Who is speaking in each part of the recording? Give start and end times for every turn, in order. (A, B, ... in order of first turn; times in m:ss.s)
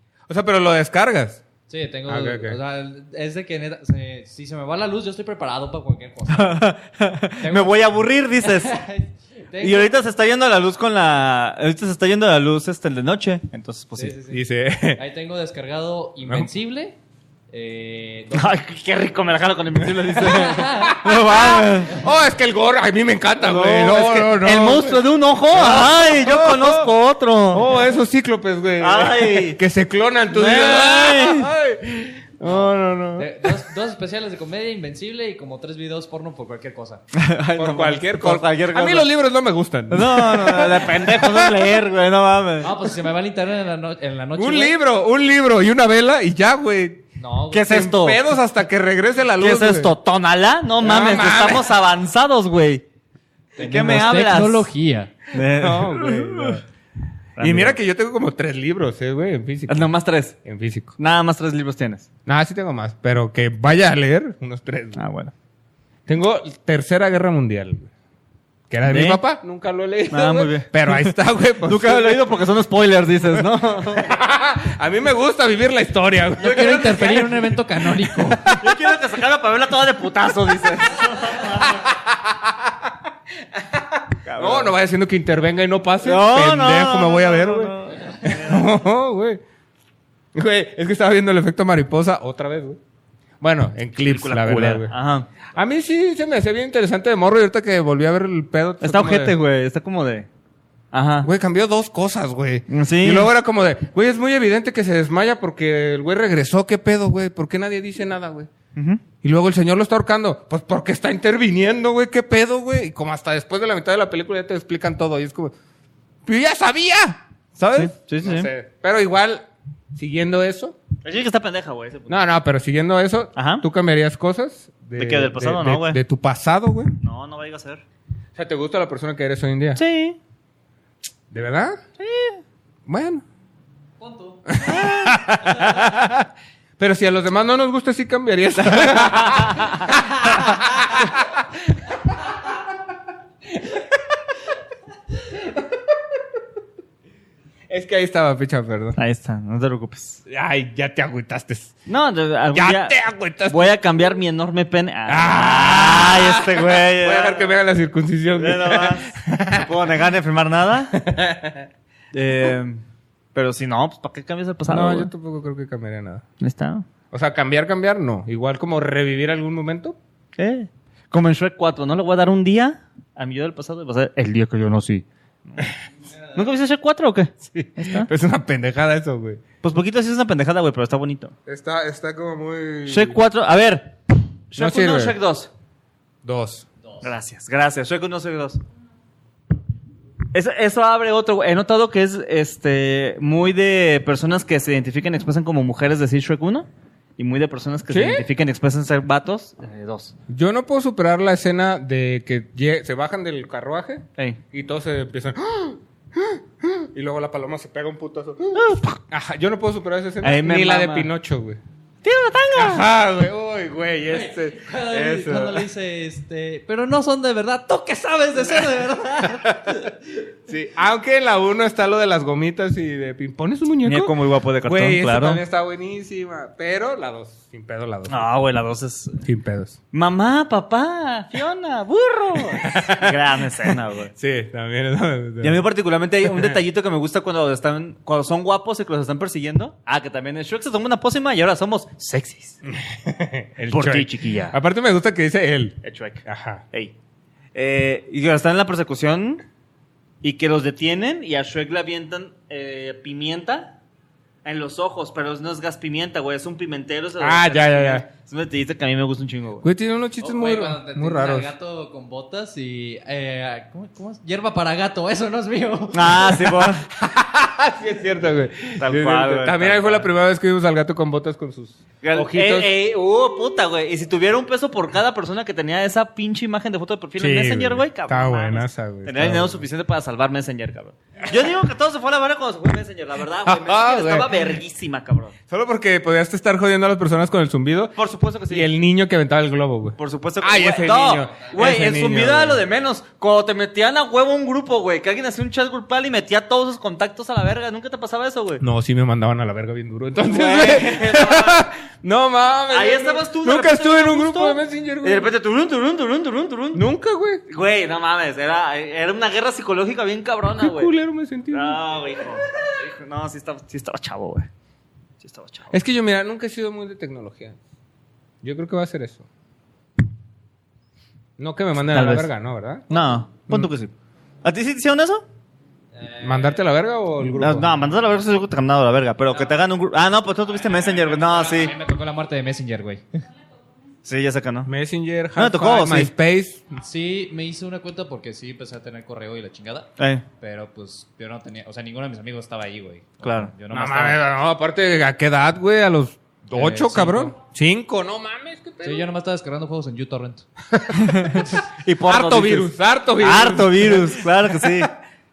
0:00.3-0:01.4 A
0:01.7-0:06.7 B
0:02.1-0:02.6 A
0:06.3-0:08.8 C
0:07.4-0:07.8 B
0:08.4-0:10.0 B
0:09.6-0:14.2 C
0:14.0-0:14.4 B
0:14.3-0:15.0 A
0:15.0-0:17.0 B
0:17.5-0:18.5 B
0:18.3-0:22.1 C
0:19.8-0:26.9 A
0:20.2-0:21.0 B
0:23.4-0:27.7 C
0:27.5-0:33.6 A
0:28.8-0:29.6 C
0:30.3-0:31.5 C
0:33.2-0:37.0 B
0:37.1-0:39.1 C
0:37.6-0:41.8 A
0:39.9-0:42.7 C
0:42.6-0:44.8 B
0:44.4-0:47.0 A
0:47.2-0:47.9 B
0:47.5-0:48.2 C
0:47.6-0:49.9 A
0:49.4-0:52.8 C
0:50.8-0:51.7 A
0:53.6-0:55.1 B
0:53.6-0:54.7 C
0:55.3-0:56.6 C
0:55.4-0:56.6 A
0:57.4-0:57.8 C
0:57.4-0:59.9 A
0:59.7-1:00.4 C
1:00.4-1:00.9 A
1:01.0-1:02.1 C
1:02.3-1:05.0 A
1:05.0-1:05.3 C
1:06.1-1:07.9 A
1:08.7-1:12.3 A
1:08.9-1:09.2 C
1:10.1-1:11.1 C
1:11.6-1:14.1 C
1:13.4-1:18.8 A
1:16.4-1:18.6 B
1:16.8-1:17.2 C
1:18.5-1:21.8 C
1:21.6-1:22.9 A
1:23.6-1:29.4 A
1:24.2-1:24.7 C
1:26.0-1:28.7 C
1:30.3-1:32.8 A
1:33.4-1:34.9 A
1:34.0-1:35.3 C
1:35.6-1:39.4 A
1:38.8-1:40.3 C
1:40.9-1:41.3 C
1:41.2-1:48.5 A
1:42.7-1:43.3 C
1:48.8-1:49.0 C
1:49.2-1:55.5 A
1:56.3-2:00.8 A
1:57.7-1:58.5 C
2:01.0-2:02.2 C
2:02.1-2:07.0 A
2:03.4-2:03.6 C
2:05.0-2:06.0 C
2:07.0-2:07.8 C
2:08.4-2:09.8 A
2:09.8-2:10.2 C
2:11.3-2:11.8 A
2:12.0-2:12.4 C
2:12.9-2:13.2 A
2:14.0-2:14.6 B
2:14.5-2:22.6 A
2:14.7-2:15.2 C
2:18.7-2:19.9 C
2:23.6-2:24.0 A
2:25.4-2:25.6 A
2:27.7-2:29.0 A
2:29.0-2:30.2 C
2:30.3-2:31.8 A
2:31.9-2:33.0 C
2:32.5-2:33.7 A
2:33.5-2:37.5 C
2:35.1-2:39.7 A
2:38.4-2:41.0 C
2:40.9-2:41.7 A
2:42.1-2:42.8 C
2:43.4-2:45.1 C
2:44.7-2:46.2 A
2:46.4-2:46.9 C
2:47.1-2:50.0 A
2:50.4-2:55.7 C
2:56.4-2:58.1 C
2:57.5-2:59.4 A
2:59.6-3:01.3 C
3:01.5-3:03.2 A
3:02.9-3:03.9 C
3:04.5-3:05.5 C
3:04.6-3:05.2 A
3:06.2-3:06.6 A
3:07.0-3:08.6 C
3:10.3-3:16.7 C
3:17.2-3:20.1 C
3:17.9-3:18.3 A
3:20.3-3:31.6 A
3:28.5-3:29.0 C
3:30.2-3:31.1 C
3:32.0-3:32.9 C
3:32.6-3:35.6 A
3:34.1-3:40.0 B
3:39.2-3:39.8 A
3:40.5-3:48.3 A
3:43.8-3:45.4 C
3:48.1-3:49.2 C
3:49.2-3:49.8 A
3:49.9-3:54.1 C
3:52.5-3:55.6 A
3:55.4-4:02.6 C
3:56.2-3:56.6 A
4:02.7-4:06.6 A
4:03.7-4:04.6 C
4:05.8-4:06.9 C
4:07.6-4:09.4 C
4:10.2-4:13.7 C
4:14.4-4:19.7 C
4:17.2-4:18.1 A
4:19.6-4:21.5 A
4:20.2-4:26.4 B
4:25.9-4:26.9 C
4:26.5-4:32.7 A
4:28.8-4:30.1 C
4:32.0-4:45.4 C
4:37.2-4:39.7 A
4:43.4-4:44.3 A
4:45.5-4:48.0 A
4:48.0-4:48.7 C
4:48.5-4:52.6 A
4:50.0-4:58.6 C
4:58.6-5:05.3 A
5:00.2-5:01.7 C
5:02.7-5:06.8 C
5:06.7-5:07.4 A
5:07.5-5:10.9 C
5:10.6-5:11.8 A
5:11.5-5:14.5 C
5:15.2-5:15.8 C
5:15.7-5:17.6 A
5:18.4-5:19.2 A
5:21.4-5:23.7 A
5:21.9-5:22.3 C
5:22.9-5:23.9 C
5:24.4-5:25.2 C
5:25.9-5:26.6 B
5:26.2-5:27.9 A
5:27.4-5:31.7 C
5:29.3-5:29.6 B
5:30.9-5:33.2 B
5:34.0-5:34.7 C
5:34.7-5:36.6 A
5:35.4-5:36.1 C
5:36.8-5:44.2 B
5:40.0-5:40.2 C
5:43.2-5:43.5 C
5:43.7-5:49.1 A
5:46.5-5:47.4 B
5:48.8-5:50.5 B
5:50.7-5:54.9 A
5:51.0-5:54.9 C